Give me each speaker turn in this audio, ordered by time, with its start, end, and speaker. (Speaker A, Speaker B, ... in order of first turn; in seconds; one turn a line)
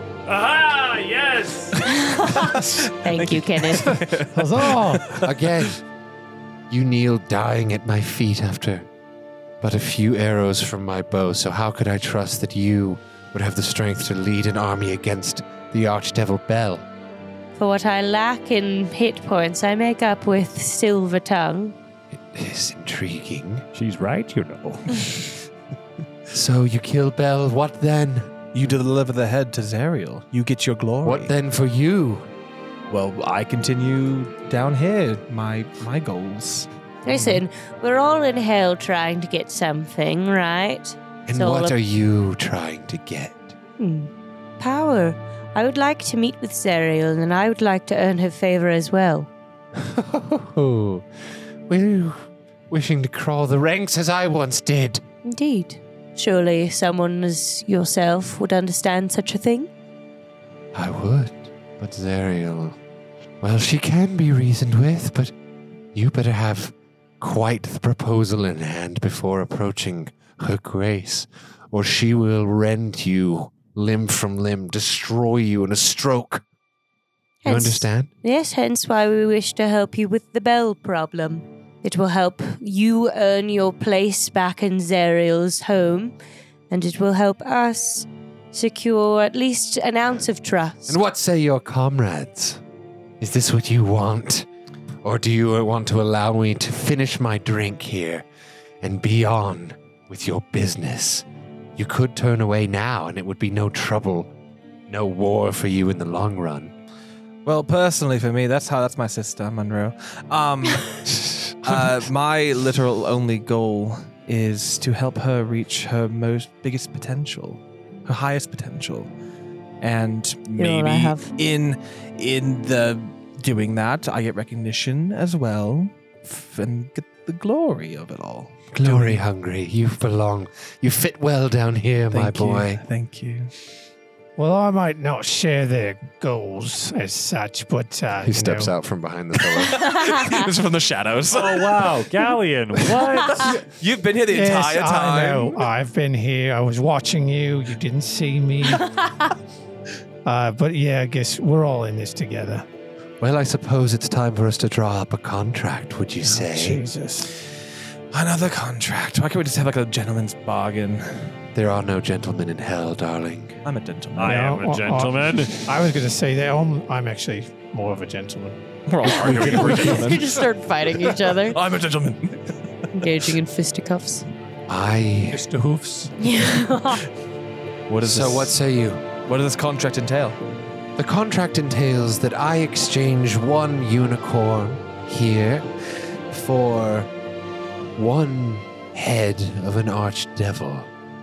Speaker A: 0.3-1.9
Speaker B: 1.9-4.0
Speaker C: 2.3-5.3
Speaker D: 4.3-5.2
Speaker E: 5.2-5.8
Speaker E: 6.7-8.9
Speaker E: 9.6-16.9
Speaker B: 17.6-21.8
Speaker E: 22.1-23.6
Speaker A: 23.7-25.4
Speaker E: 26.3-28.3
Speaker C: 28.5-31.3
Speaker E: 31.0-32.3
Speaker C: 32.9-37.4
Speaker B: 37.0-41.8
Speaker E: 41.3-43.6
Speaker B: 43.8-49.3
Speaker E: 49.8-51.1
Speaker E: 51.7-55.0
Speaker B: 55.2-59.7
Speaker E: 60.7-62.8
Speaker E: 63.4-65.3
Speaker E: 65.9-76.4
Speaker B: 77.4-86.1
Speaker E: 77.5-78.1
Speaker B: 86.7-91.0
Speaker E: 90.9-92.6
Speaker E: 93.2-94.5
Speaker E: 95.0-98.3
Speaker E: 98.8-104.3
Speaker E: 104.9-106.7
Speaker C: 107.5-119.1
Speaker C: 119.8-129.2
Speaker B: 120.6-121.3
Speaker E: 128.7-132.8
Speaker C: 132.1-133.5
Speaker D: 134.4-138.7
Speaker E: 138.2-139.9
Speaker C: 139.5-141.9
Speaker B: 140.0-140.4
Speaker A: 141.3-143.6
Speaker C: 142.9-145.7
Speaker D: 144.3-148.9
Speaker D: 150.2-152.7
Speaker E: 153.2-156.8
Speaker D: 156.3-157.3
Speaker C: 158.1-161.4
Speaker E: 161.5-163.6
Speaker C: 163.7-164.5
Speaker A: 164.2-165.7
Speaker D: 164.2-169.8
Speaker C: 168.9-170.4
Speaker B: 169.3-171.6
Speaker C: 171.1-173.1
Speaker B: 172.9-174.2
Speaker E: 174.7-175.5
Speaker D: 175.3-176.2
Speaker B: 176.2-177.1
Speaker C: 177.9-178.6
Speaker E: 178.0-179.0
Speaker C: 179.2-180.4
Speaker E: 181.0-187.1
Speaker E: 188.0-190.9